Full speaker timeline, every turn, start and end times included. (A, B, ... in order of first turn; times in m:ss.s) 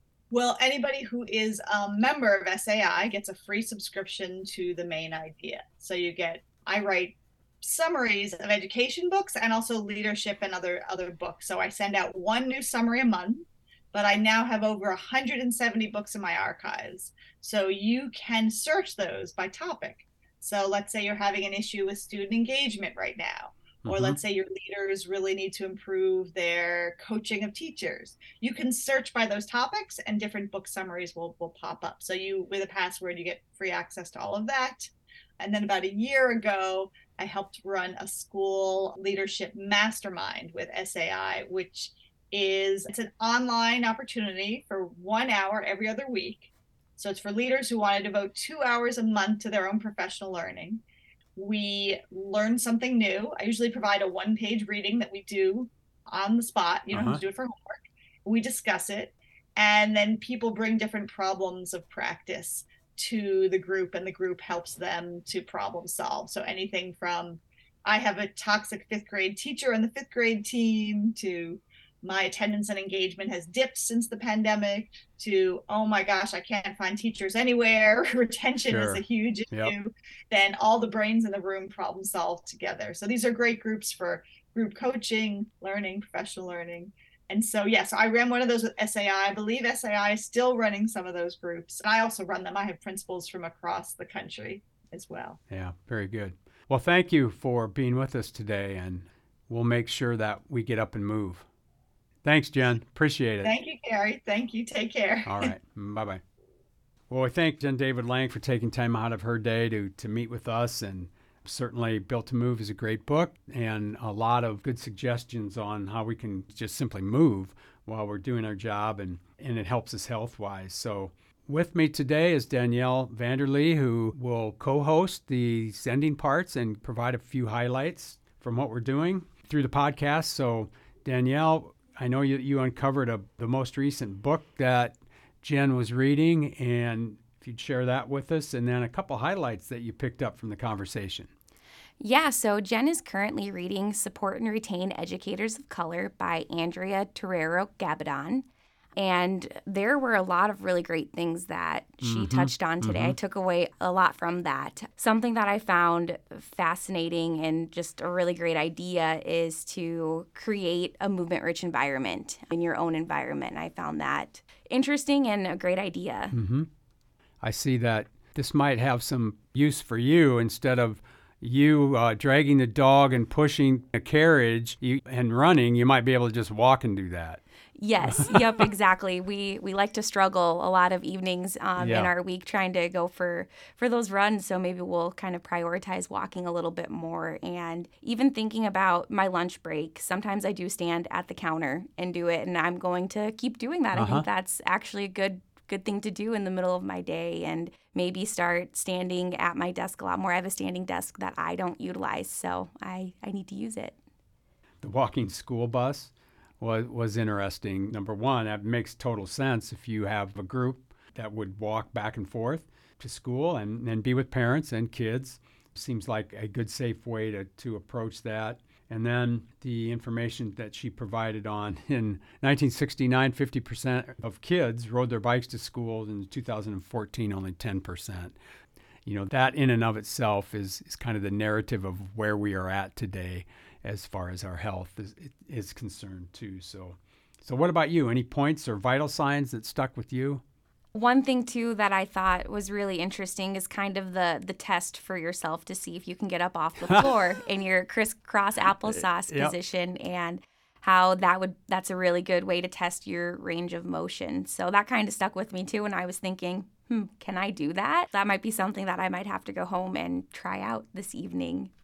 0:00.3-0:50.8 A
0:23.8-0:24.2 B
0:51.4-1:35.4 A
0:56.9-0:57.2 B
1:18.7-1:19.7 B
1:35.5-1:41.4 B
1:42.2-1:43.5 B
1:43.4-1:45.5 A
1:45.2-1:46.2 B
1:47.1-2:21.3 B
2:22.0-2:28.4 C
2:29.0-2:46.3 C
2:32.0-2:33.2 B
2:46.3-2:46.7 B
2:47.4-2:57.4 B
2:57.8-3:24.0 C
2:58.0-2:58.7 B
3:01.8-3:02.1 B
3:13.9-3:14.2 B
3:24.8-3:48.4 B
3:49.0-4:00.4 B
4:00.9-4:21.7 C
4:06.8-4:07.2 B
4:08.7-4:09.5 B